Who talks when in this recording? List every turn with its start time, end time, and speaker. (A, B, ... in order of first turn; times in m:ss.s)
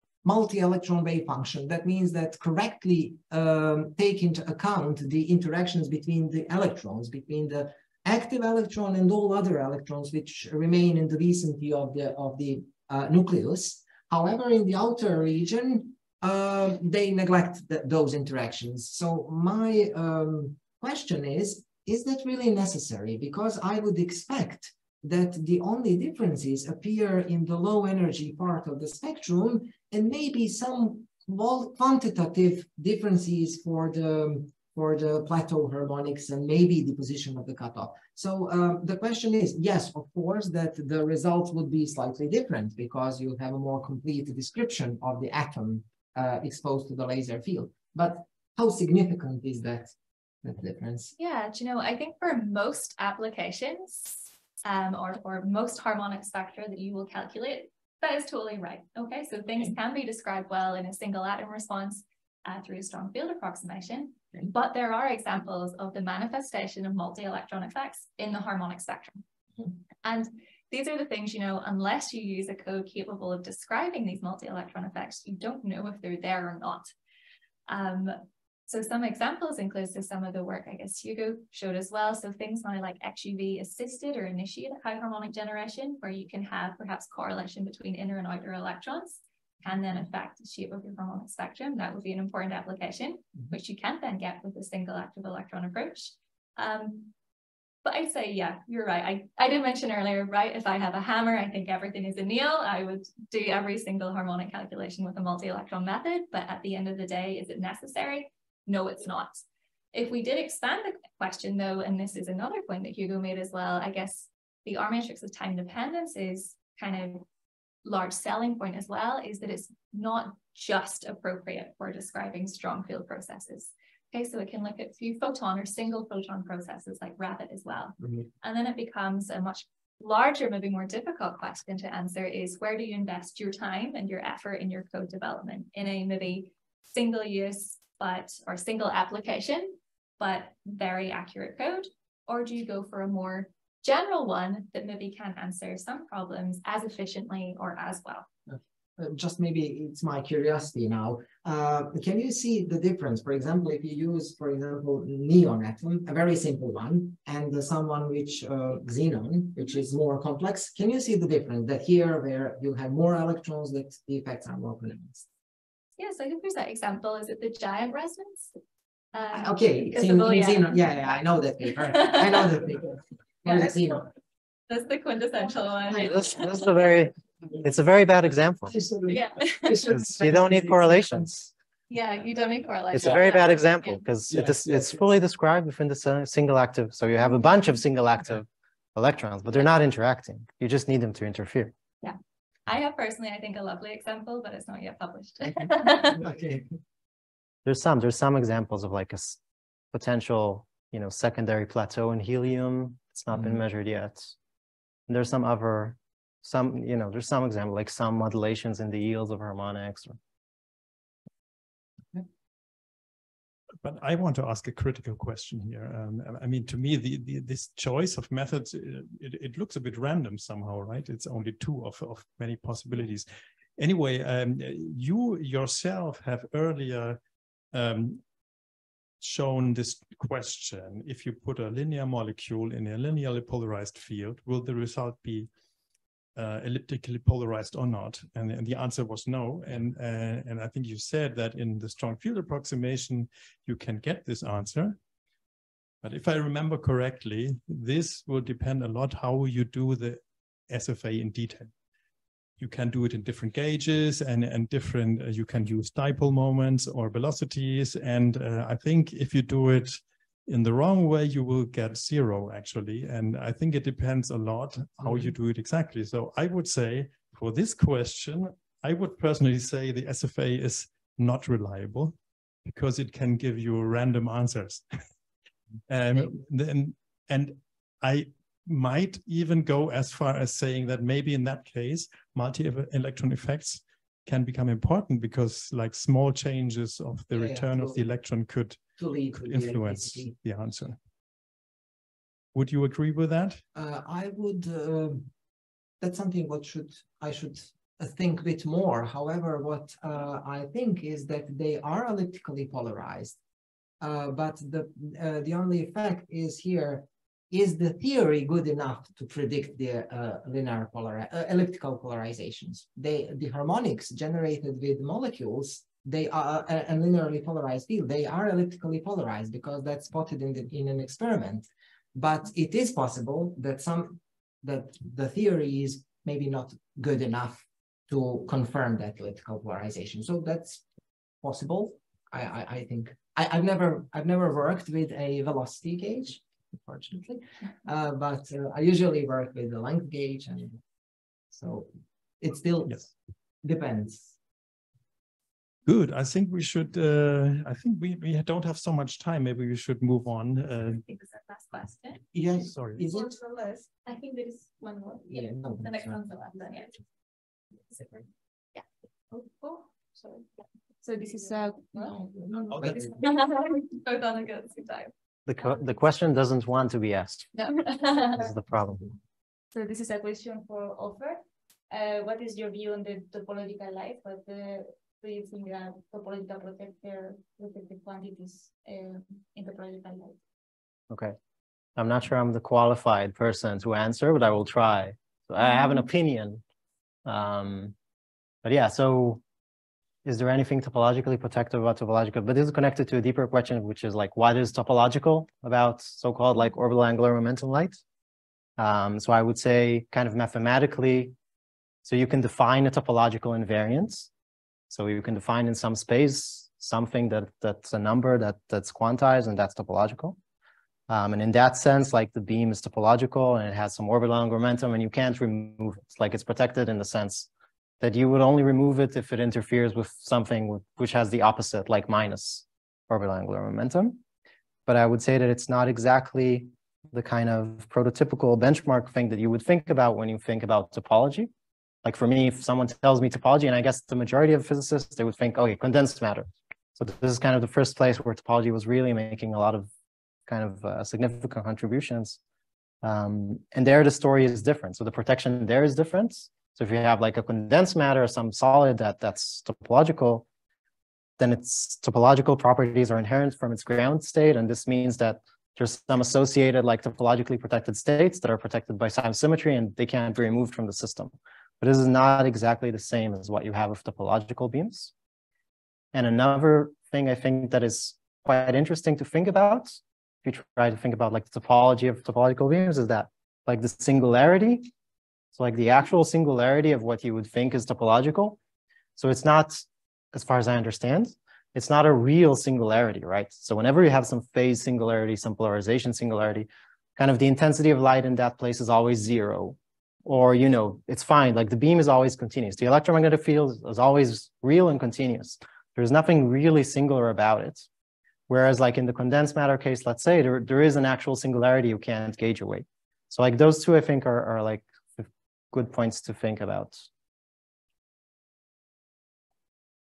0:00.2-0:51.1 A
0:51.2-1:09.2 B
1:10.0-1:16.9 B
1:17.7-1:37.1 B
1:37.8-1:49.4 B
1:49.9-1:57.2 B
1:57.8-2:28.3 B
2:28.5-2:45.3 A
2:46.0-2:48.5 B
2:49.1-2:50.8 B
2:49.3-2:54.1 A
2:51.7-2:52.6 B
2:53.5-2:54.0 B
2:54.7-2:56.4 B
2:56.0-2:58.7 C
2:58.7-3:01.5 A
2:59.1-2:59.9 B
2:59.8-3:01.4 C
3:01.9-3:04.0 B
3:02.9-3:11.7 C
3:12.0-3:16.3 B
3:15.4-3:16.7 A
3:17.7-3:19.4 C
3:19.9-3:24.3 C
3:25.1-3:30.2 C
3:33.8-3:47.2 D
3:47.7-3:48.2 D
3:49.2-3:55.5 D
3:56.4-4:05.0 D
4:06.0-4:11.7 D
4:12.6-4:34.8 D
4:35.9-4:48.8 D
4:47.3-4:48.0 A
4:49.0-4:50.3 A
4:49.3-4:51.0 D
4:52.6-4:53.6 D
4:53.8-4:55.3 A
4:56.0-5:03.4 A
5:04.0-5:30.8 A
5:31.4-5:40.8 A
5:41.5-5:41.9 A
5:42.4-5:43.1 A
5:43.6-5:44.3 A
5:45.9-5:51.0 D
5:51.1-5:52.2 B
5:52.3-5:53.4 A
5:52.6-5:53.0 D
5:54.1-5:57.0 B
5:55.3-5:56.2 A
5:59.4-5:59.7 B
6:01.0-6:02.2 E
6:02.7-6:05.1 B
6:02.7-6:03.1 A
6:05.5-6:07.6 C
6:07.6-6:08.4 B
6:08.3-6:09.1 C
6:09.7-6:20.4 E
6:21.1-6:21.4 C
6:22.0-6:26.6 C
6:27.3-6:28.0 C
6:28.6-6:29.4 C
6:30.2-6:38.0 C
6:38.8-6:41.4 C
6:42.0-6:44.3 C
6:44.9-6:50.4 C
6:51.1-6:57.5 C
6:58.0-7:04.2 C
7:04.9-7:11.5 C
7:12.0-7:19.9 C
7:20.5-7:22.4 C
7:23.0-7:30.5 C
7:31.4-7:45.1 C
7:46.1-7:54.9 C
7:55.6-7:58.6 C
7:59.2-8:17.9 C
8:18.5-8:27.1 C